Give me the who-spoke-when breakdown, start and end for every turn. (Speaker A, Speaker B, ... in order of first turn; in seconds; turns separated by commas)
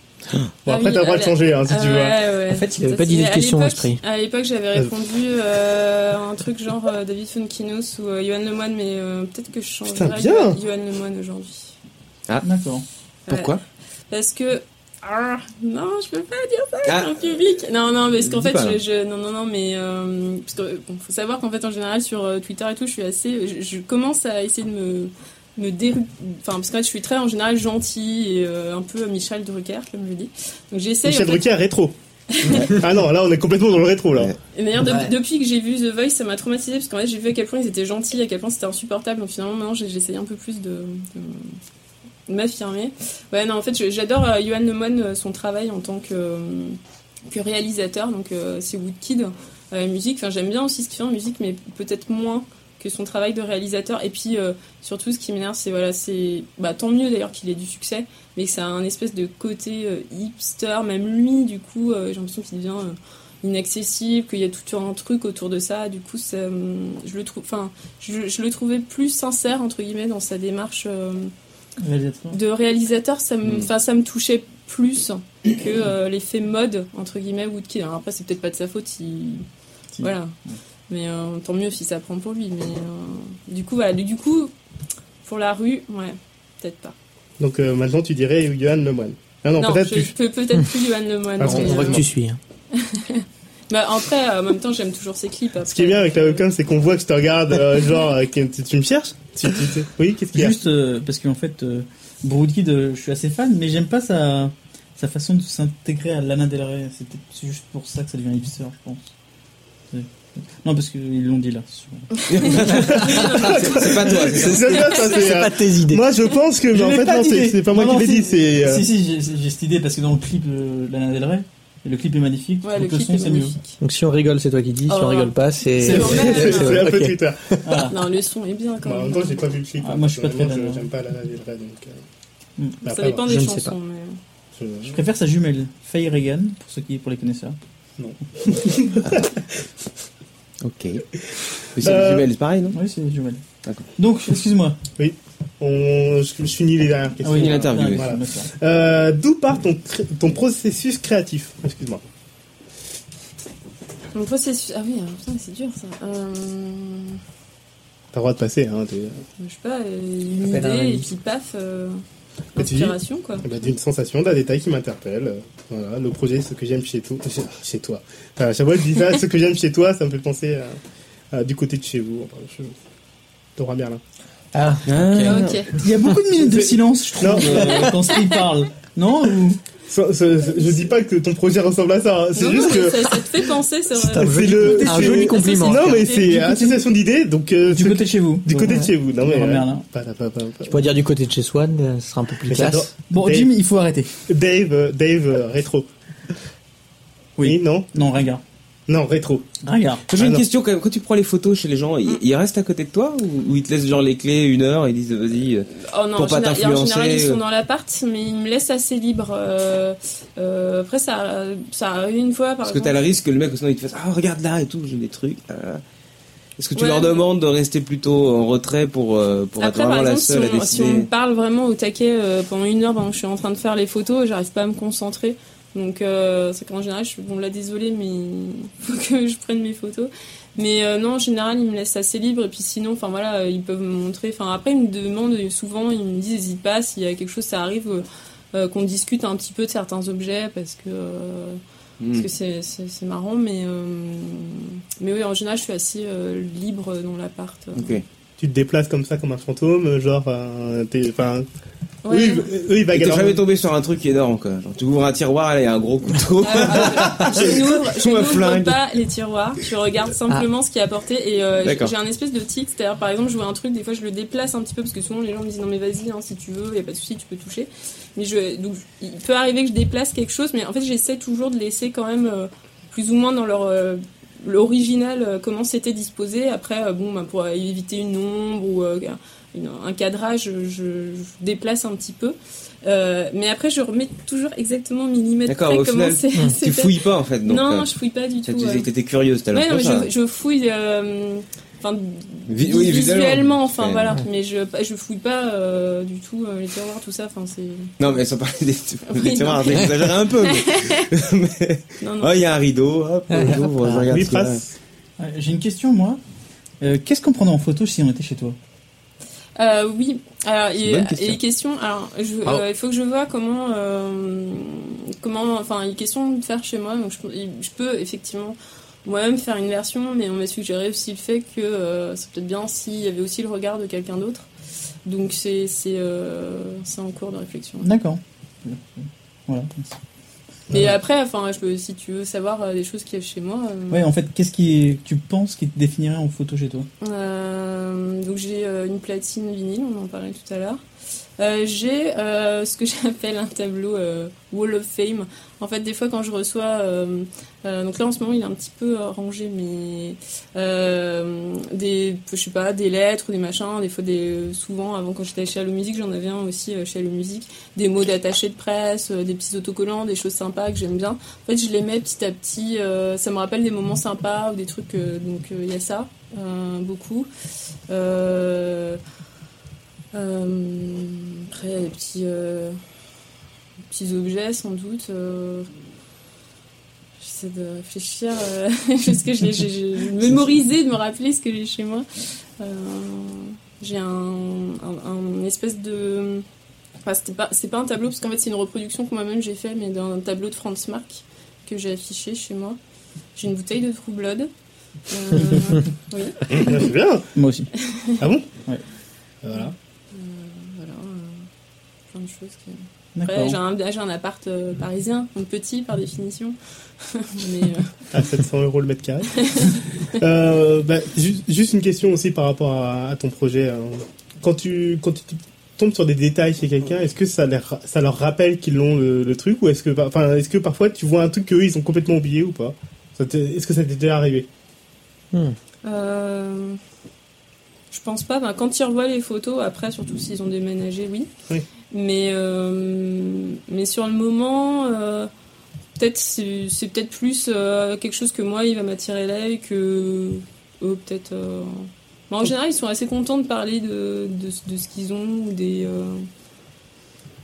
Speaker A: 0.6-2.2, Speaker B: 0.7-11.8, Speaker C: 2.5-4.0, Speaker A: 9.9-10.6, Speaker D: 12.4-12.8, Speaker B: 13.3-13.5, Speaker E: 13.3-13.6, Speaker B: 14.1-31.4, Speaker E: 16.9-17.1, Speaker E: 18.2-18.8, Speaker A: 31.0-31.9, Speaker B: 32.3-32.7, Speaker A: 32.4-34.3, Speaker B: 34.5-41.6, Speaker C: 34.8-35.1, Speaker B: 42.3-71.3, Speaker D: 71.8-72.4, Speaker B: 72.3-79.5, Speaker D: 80.0-80.6, Speaker B: 80.0-80.3, Speaker B: 80.9-84.5, Speaker B: 85.2-86.9, Speaker A: 87.4-90.1, Speaker B: 89.6-92.0, Speaker A: 91.4-92.1, Speaker C: 91.4-92.4, Speaker B: 92.7-96.4, Speaker A: 95.7-100.6, Speaker D: 100.3-109.1, Speaker D: 109.9-113.0, Speaker E: 112.3-114.7, Speaker B: 112.4-114.2, Speaker A: 112.7-118.8, Speaker C: 114.5-116.0, Speaker D: 116.7-123.6, Speaker B: 122.6-123.8, Speaker C: 123.8-127.6, Speaker B: 124.9-126.8, Speaker D: 125.8-126.7, Speaker A: 125.9-127.4, Speaker D: 127.6-128.0, Speaker B: 127.9-129.4, Speaker A: 128.8-132.0, Speaker D: 129.8-130.9, Speaker A: 132.8-133.3, Speaker B: 132.8-134.2, Speaker C: 133.3-133.7, Speaker A: 134.6-135.0, Speaker D: 134.8-137.6, Speaker A: 138.0-139.4, Speaker E: 140.6-141.1, Speaker E: 141.7-142.8, Speaker A: 141.8-142.2, Speaker D: 142.7-143.4, Speaker D: 143.9-144.8, Speaker A: 145.0-152.0, Speaker D: 147.2-148.5, Speaker E: 147.3-148.1, Speaker B: 154.1-157.2, Speaker A: 158.1-159.2, Speaker B: 159.4-162.0, Speaker C: 160.4-161.1, Speaker B: 162.5-163.5, Speaker A: 162.6-170.8, Speaker A: 171.3-172.8, Speaker A: 173.6-174.0, Speaker C: 174.5-175.5, Speaker E: 174.9-175.7, Speaker B: 175.2-175.7, Speaker D: 175.7-179.6, Speaker A: 176.4-177.9, Speaker B: 177.8-178.3, Speaker A: 179.9-183.4, Speaker B: 182.3-186.7, Speaker C: 184.0-186.1, Speaker A: 184.1-190.8, Speaker D: 187.7-189.8, Speaker C: 190.7-192.9, Speaker A: 192.5-193.5, Speaker D: 193.1-194.1, Speaker A: 194.3-195.9, Speaker D: 197.4-198.4, Speaker A: 197.4-197.9, Speaker A: 198.9-199.5, Speaker D: 199.6-200.0, Speaker E: 200.1-207.4, Speaker A: 200.2-200.4, Speaker B: 205.8-213.0, Speaker E: 212.6-215.8, Speaker E: 216.6-221.1, Speaker B: 216.7-217.2, Speaker B: 219.6-248.0, Speaker E: 242.0-242.3, Speaker E: 247.8-248.0, Speaker A: 248.4-251.4, Speaker B: 252.0-252.5, Speaker A: 252.1-253.4, Speaker E: 252.9-258.8, Speaker B: 256.4-288.9, Speaker E: 261.6-261.9, Speaker E: 285.5-287.9, Speaker E: 288.4-290.1, Speaker B: 289.5-298.1, Speaker E: 292.5-294.2, Speaker E: 298.0-304.6, Speaker B: 299.1-301.1, Speaker B: 302.0-302.4, Speaker C: 303.3-304.1, Speaker A: 304.1-304.8, Speaker D: 305.2-306.2, Speaker D: 306.8-308.6, Speaker B: 309.6-324.5, Speaker E: 310.8-311.4, Speaker B: 325.1-327.9, Speaker D: 327.8-330.0, Speaker B: 330.7-334.0, Speaker D: 333.9-336.9, Speaker B: 337.0-340.8, Speaker B: 341.4-367.3, Speaker B: 367.9-369.0, Speaker B: 370.1-372.8, Speaker B: 373.9-375.7, Speaker B: 377.2-382.1, Speaker B: 382.6-386.4, Speaker B: 387.0-392.8, Speaker B: 393.4-394.5, Speaker B: 395.1-396.6, Speaker A: 396.5-397.3, Speaker D: 397.3-397.7, Speaker B: 397.9-398.2, Speaker A: 398.2-398.5, Speaker A: 399.4-399.7, Speaker B: 399.5-401.4, Speaker B: 402.1-407.9, Speaker D: 403.1-403.6, Speaker A: 408.1-424.5, Speaker B: 409.3-409.7, Speaker B: 425.8-426.8, Speaker B: 427.9-431.3, Speaker B: 431.9-435.3, Speaker B: 436.0-446.3